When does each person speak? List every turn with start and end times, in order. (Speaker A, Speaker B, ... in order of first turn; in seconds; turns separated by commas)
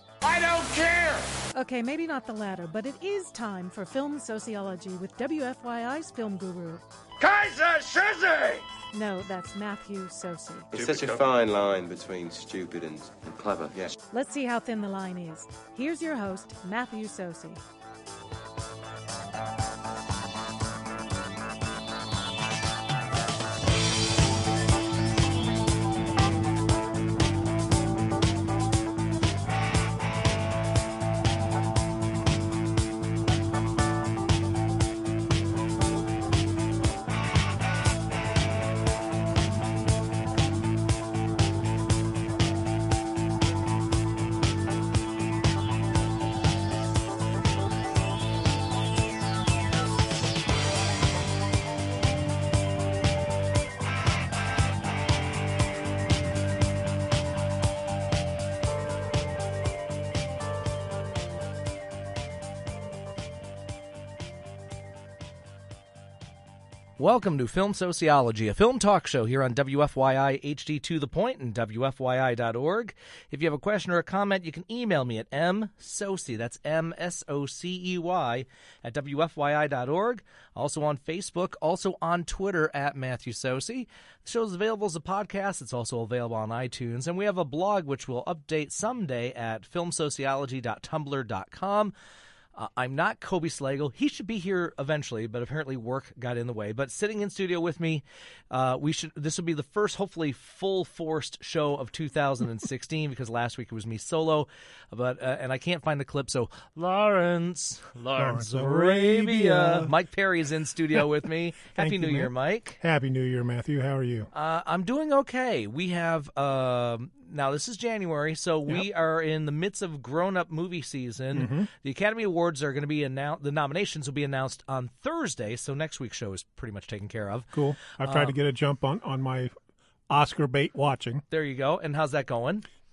Speaker A: 0.2-1.3, Speaker B: 1.5-6.8, Speaker A: 7.2-8.7, Speaker B: 8.9-10.7, Speaker C: 10.7-13.9, Speaker B: 14.1-17.6, Speaker D: 67.0-91.9, Speaker D: 92.5-112.8, Speaker E: 108.2-109.9, Speaker E: 111.6-114.3, Speaker D: 114.3-128.4, Speaker E: 121.3-121.7, Speaker E: 127.5-129.6, Speaker E: 130.1-131.2, Speaker D: 131.3-132.7